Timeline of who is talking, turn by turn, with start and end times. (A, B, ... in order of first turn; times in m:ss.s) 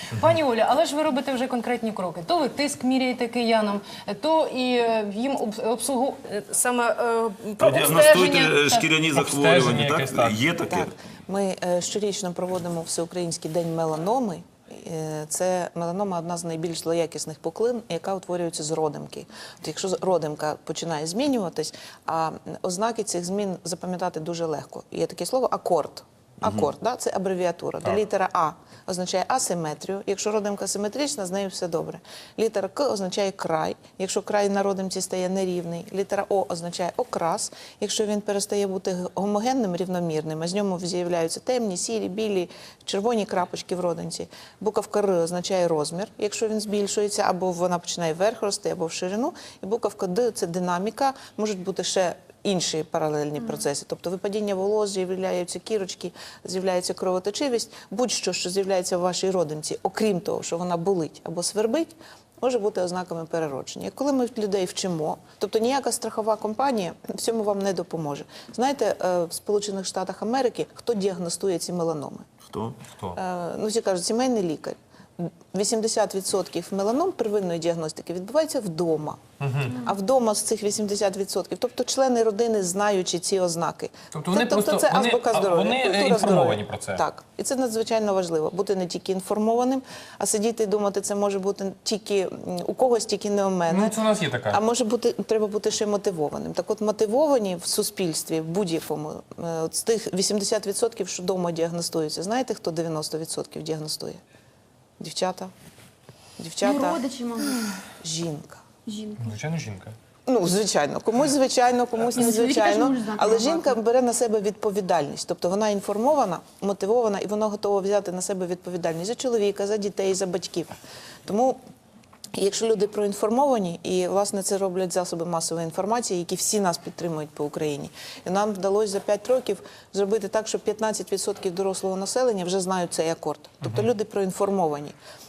0:00.1-0:08.9 A
0:07.6-0:10.9 B
0:09.1-0:10.4 C
0:10.7-1:12.3 D
1:12.4-1:12.8 B
1:13.1-1:33.9 D
1:19.4-1:19.8 C
1:24.1-1:27.0 C
1:33.7-1:34.6 C
1:34.5-1:44.2 D
1:45.0-1:45.5 D
1:46.4-1:47.0 D
1:46.6-1:47.7 E
1:48.0-1:48.6 D
1:48.8-1:49.3 E
1:49.2-1:49.9 C
1:50.2-2:00.7 D
1:52.1-1:53.7 E
2:01.2-2:01.6 D
2:02.3-2:15.0 D